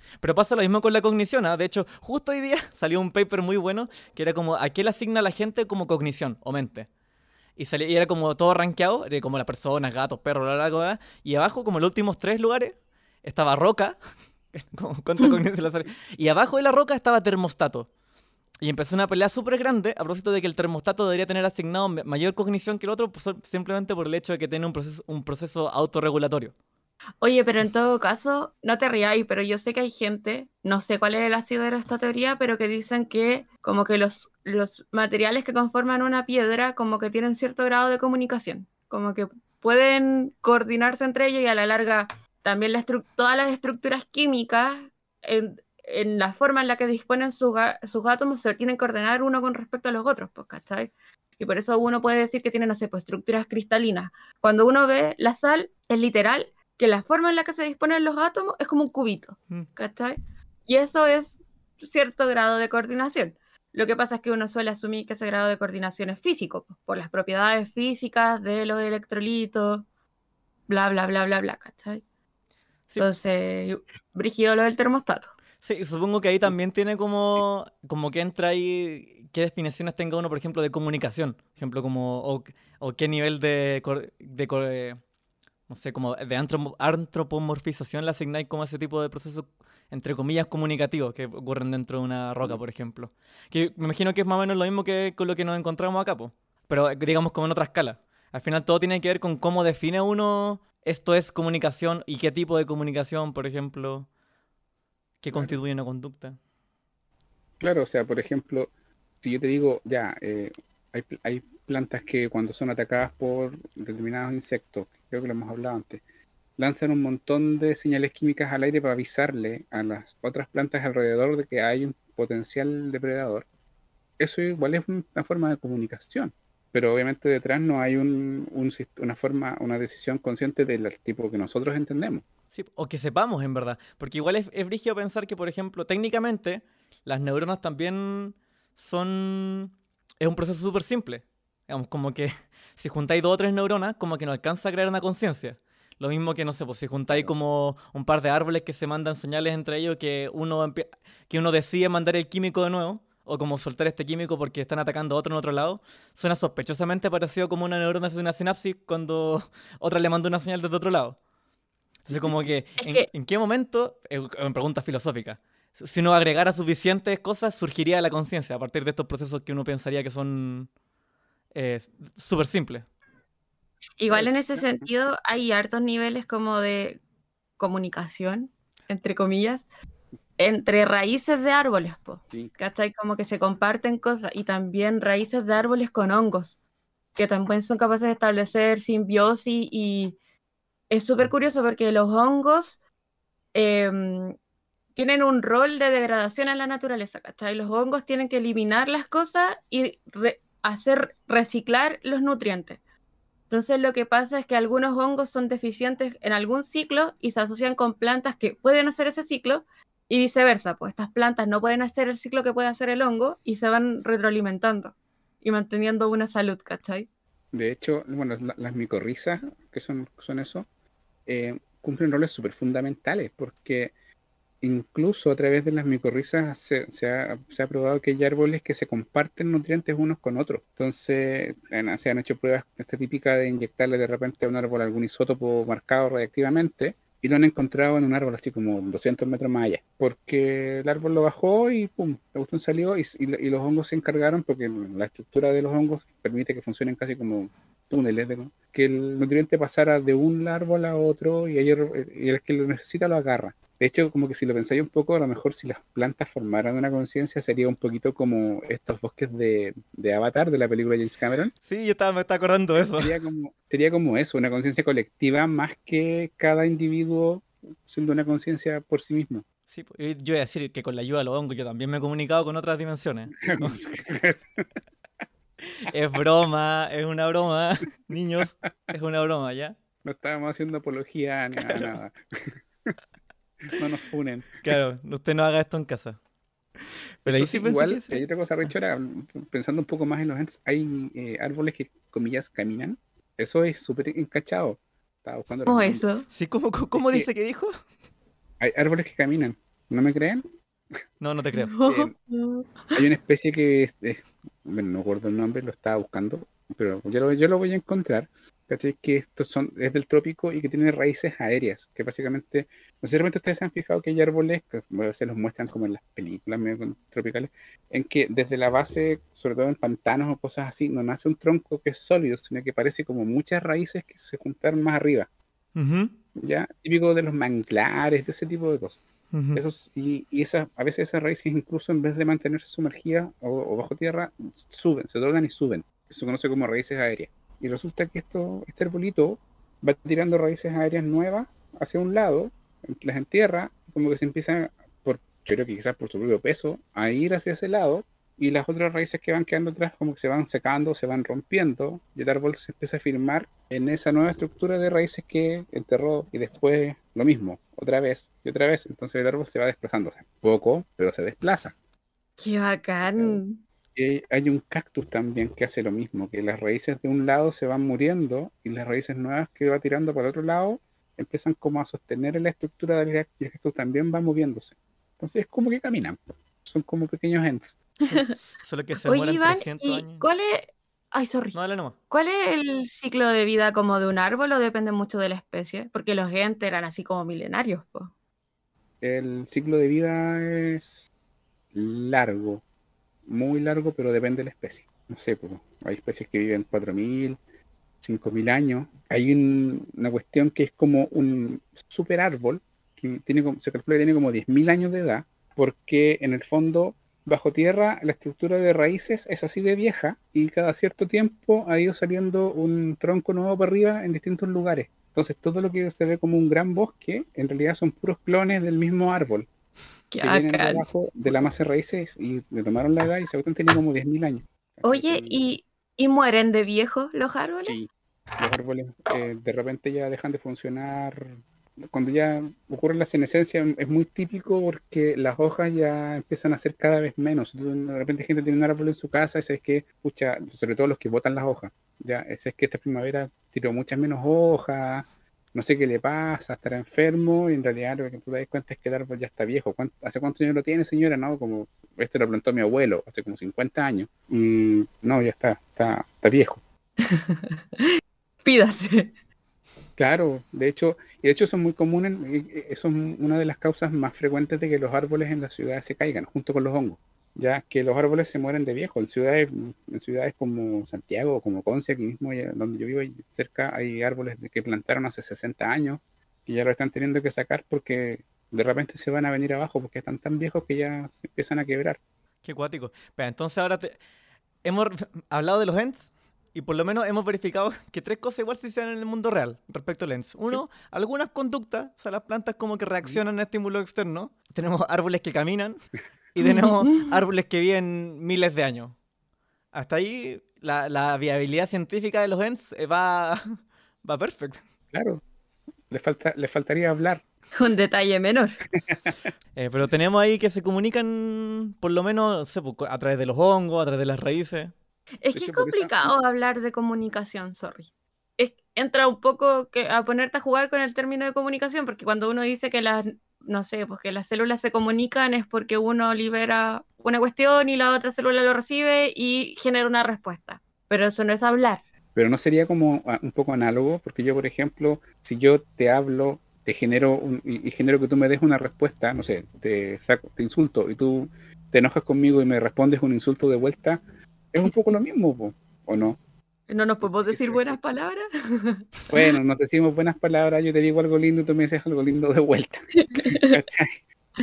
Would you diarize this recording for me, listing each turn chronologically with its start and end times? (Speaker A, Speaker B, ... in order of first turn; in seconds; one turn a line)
Speaker A: 0.2-6.9
Speaker A: 7.6-14.0
Speaker A: 14.5-17.9
Speaker A: 18.6-26.5
Speaker B: 27.2-69.8
Speaker B: 70.7-72.0
Speaker B: 73.0-75.3
Speaker A: 75.6-85.0
Speaker A: 85.7-104.1
Speaker A: 105.2-106.4
Speaker C: 107.6-108.7
Speaker C: 109.2-116.0
Speaker C: 116.6-123.5
Speaker C: 124.2-132.2
Speaker A: 132.5-161.2
Speaker A: 162.1-170.7
Speaker C: 162.1-162.4
Speaker B: 162.8-163.1
Speaker A: 171.5-172.9
Speaker B: 174.0-177.0
Speaker C: 174.1-174.9
Speaker B: 177.6-179.7
Speaker B: 180.4-186.6
Speaker B: 187.2-190.2
Speaker B: 190.9-192.8
Speaker B: 193.5-194.4
Speaker B: 194.9-202.8
Speaker B: 203.5-217.1
Speaker C: 217.5-220.7
Speaker C: 221.3-223.9
Speaker C: 224.6-261.5
Speaker A: 261.7-263.1
Speaker C: 262.8-269.4
Speaker A: 269.7-273.8
Speaker C: 273.4-274.8
Speaker A: 275.8-279.8
Speaker C: 280.0-283.0
Speaker C: 283.6-284.6
Speaker A: 284.6-286.2
Speaker A: 287.2-288.2
Speaker C: 287.3-296.0
Speaker B: 295.7-296.3
Speaker A: 296.3-297.7
Speaker C: 297.0-297.3
Speaker C: 298.6-300.4
Speaker A: 301.2-301.7
Speaker B: 301.5-303.0
Speaker C: 301.9-302.1
Speaker C: 302.9-325.3
Speaker A: 325.8-326.1
Speaker C: 326.4-329.0
Speaker A: 329.3-329.6
Speaker C: 329.5-361.8
Speaker B: 362.4-363.6
Speaker C: 363.1-363.4
Speaker C: 363.9-377.8
Speaker B: 378.0-378.3
Speaker A: 378.6-380.3
Speaker B: 379.0-381.6
Speaker A: 381.5-382.0
Speaker B: 382.1-388.1
Speaker C: 389.0-391.1
Speaker C: 391.7-392.6
Speaker C: 393.3-397.4
Speaker C: 398.0-419.5
Speaker B: 420.1-420.8
Speaker C: 420.2-425.4
Speaker B: 424.8-427.8
Speaker C: 427.6-456.6
Speaker B: 457.1-459.1
Speaker C: 460.0-482.0
Speaker A: 482.4-484.0
Speaker A: 484.6-495.8
Speaker A: 496.4-498.9
Speaker B: 496.4-497.1
Speaker A: 499.7-504.6
Speaker C: 504.9-505.2
Speaker C: 505.9-507.2
Speaker B: 507.6-508.6
Speaker C: 508.9-509.1
Speaker A: 509.6-514.7
Speaker B: 515.2-531.8
Speaker C: 515.3-516.1
Speaker C: 532.1-544.0
Speaker C: 544.5-546.2
Speaker B: 546.7-548.9
Speaker C: 547.0-547.8
Speaker C: 549.1-553.9
Speaker B: 553.0-553.5